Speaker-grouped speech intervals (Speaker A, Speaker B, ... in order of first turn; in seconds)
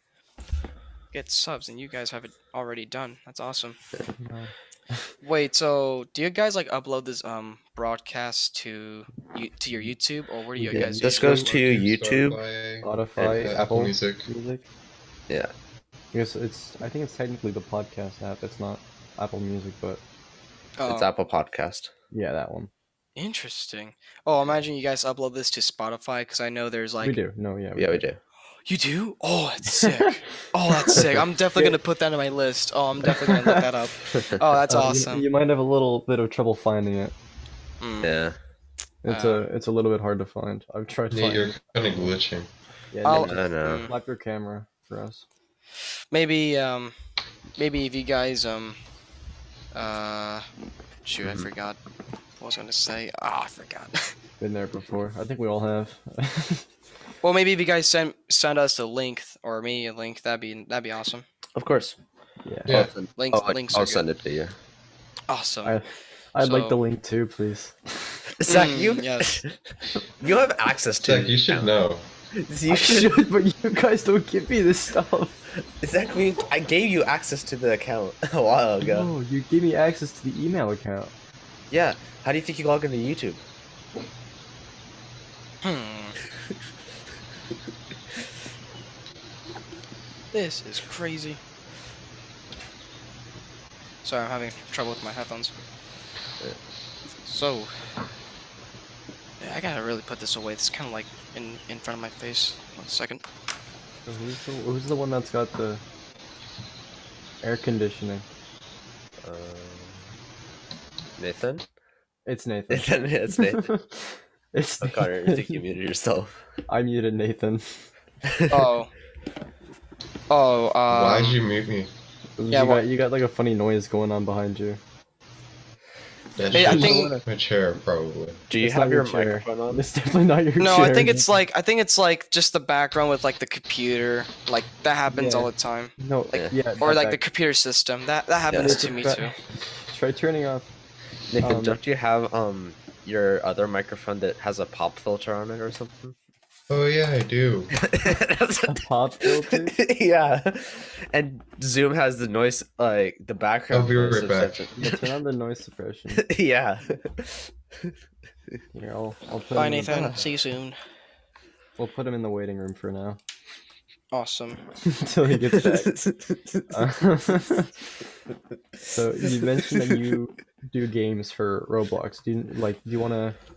Speaker A: 1.1-3.8, 5.2-11.6, 20.8-21.1, 23.1-27.2, 28.6-35.2, 37.8-38.2, 39.1-39.5, 43.0-44.0, 46.1-46.9, 47.6-48.8, 49.7-50.5, 51.0-51.8, 52.4-54.1, 57.2-61.2, 63.1-64.0, 65.3-65.8, 66.4-66.8, 68.4-69.4, 85.6-86.1, 90.3-91.4, 94.0-95.5, 97.2-97.7, 99.4-103.2, 118.5-118.9, 120.3-121.4, 122.5-122.8, 126.5-127.2, 130.6-135.9, 136.8-139.3, 159.5-160.8, 164.1-164.6
Speaker B: 4.2-5.0, 10.5-11.4, 12.8-14.7, 16.1-20.0, 22.1-22.7, 27.0-28.0, 29.8-30.1, 33.0-33.6, 34.7-37.1, 39.0-41.5, 42.9-45.2, 54.4-56.7, 62.4-62.9, 65.6-68.2, 72.7-75.4, 78.8-81.1, 104.0-105.8, 107.4-108.2, 112.2-115.6, 116.7-117.8, 122.4-124.8, 126.5-127.2, 128.6-131.3, 135.1-137.2, 138.6-140.7, 141.4-141.8, 148.7-149.8, 154.8-156.2, 158.7-160.2, 161.8-163.2, 164.8-165.9, 166.7-167.7, 168.9-173.3
Speaker C: 10.7-12.4, 20.8-21.9, 27.8-28.2, 34.1-34.4, 38.0-38.3, 43.1-43.8, 61.5-62.0, 62.7-64.5, 68.4-71.8, 72.4-73.3, 75.8-79.1, 81.7-83.4, 109.2-110.0, 111.2-111.7, 112.7-113.7, 114.8-116.4, 118.2-118.7, 128.5-129.8, 138.5-138.8, 141.3-146.1, 147.8-155.1, 156.1-157.9, 165.4-167.0, 169.4-170.0
Speaker D: 11.4-14.3, 41.1-42.5, 62.7-62.9, 71.0-72.1, 120.9-121.9, 126.4-128.4, 146.7-147.7, 153.7-154.7